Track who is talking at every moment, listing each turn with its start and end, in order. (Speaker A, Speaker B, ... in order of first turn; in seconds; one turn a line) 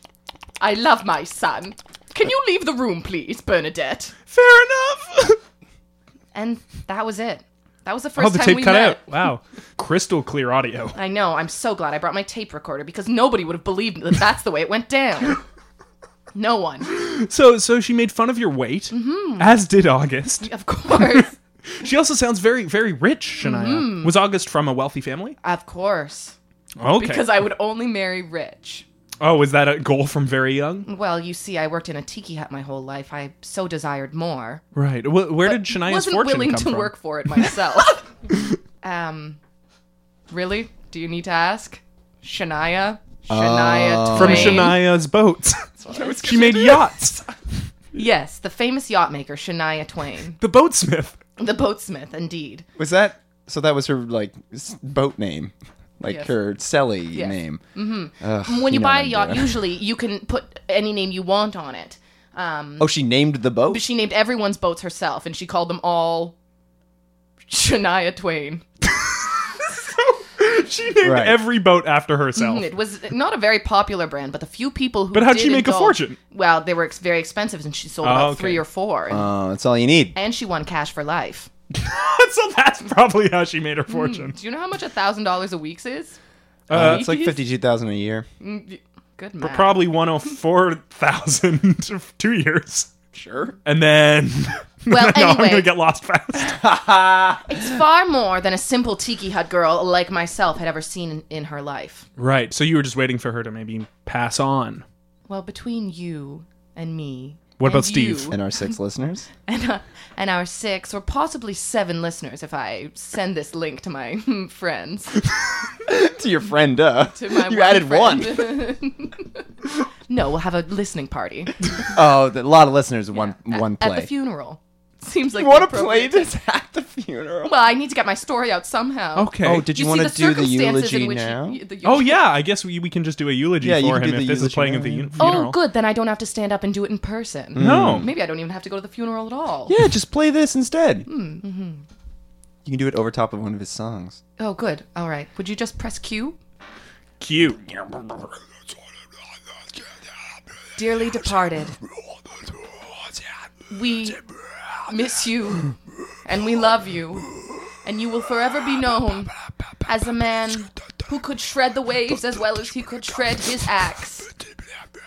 Speaker A: 0.6-4.1
Speaker B: 4.3-5.4
Speaker A: 6.3-9.1
Speaker B: 8.2-11.0
Speaker A: 10.9-15.4
Speaker A: 16.3-16.9
Speaker B: 16.9-21.2
Speaker A: 18.9-19.5
Speaker A: 20.4-21.3
Speaker B: 21.7-25.4
Speaker A: 23.4-24.1
Speaker A: 25.4-26.3
Speaker B: 26.8-27.4
Speaker A: 26.9-28.9
Speaker B: 29.2-30.9
Speaker A: 30.9-34.6
Speaker B: 34.7-37.5
Speaker A: 35.4-38.0
Speaker A: 38.8-39.4
Speaker A: 40.3-44.8
Speaker C: 43.3-44.7
Speaker B: 44.1-47.2
Speaker A: 45.8-46.9
Speaker A: 47.9-50.4
Speaker B: 50.4-51.2
Speaker A: 51.4-52.6
Speaker C: 52.8-57.6
Speaker A: 57.1-62.9
Speaker C: 58.2-59.5
Speaker C: 62.8-63.8
Speaker A: 63.7-66.3
Speaker A: 67.5-68.6
Speaker B: 70.0-72.7
Speaker C: 71.0-71.4
Speaker A: 72.3-79.3
Speaker B: 75.1-76.2
Speaker B: 78.0-78.6
Speaker C: 79.1-80.2
Speaker A: 80.1-81.5
Speaker B: 81.7-84.3
Speaker A: 83.9-86.2
Speaker B: 86.7-87.1
Speaker C: 86.7-88.3
Speaker A: 86.7-87.4
Speaker A: 88.4-89.8
Speaker B: 89.4-92.9
Speaker B: 93.6-96.5
Speaker A: 94.9-95.7
Speaker C: 96.3-97.6
Speaker A: 97.5-102.0
Speaker B: 102.2-104.8
Speaker A: 105.3-108.6
Speaker B: 107.6-108.3
Speaker C: 108.3-109.3
Speaker A: 109.5-115.2
Speaker C: 115.8-118.6
Speaker A: 117.1-119.4
Speaker A: 120.1-121.6
Speaker C: 121.9-124.1
Speaker A: 123.1-126.3
Speaker C: 125.3-127.5
Speaker A: 127.4-132.2
Speaker B: 129.2-129.7
Speaker C: 129.4-131.6
Speaker B: 131.8-135.6
Speaker C: 133.6-135.2
Speaker A: 135.2-139.7
Speaker C: 137.5-138.1
Speaker B: 137.6-138.1
Speaker C: 139.7-141.1
Speaker A: 141.1-141.8
Speaker C: 142.6-144.2
Speaker A: 144.4-146.4
Speaker B: 147.2-147.6
Speaker C: 147.8-148.2
Speaker A: 150.8-151.8
Speaker A: 153.7-154.2
Speaker A: 154.8-155.7
Speaker A: 156.2-164.3
Speaker C: 162.1-162.6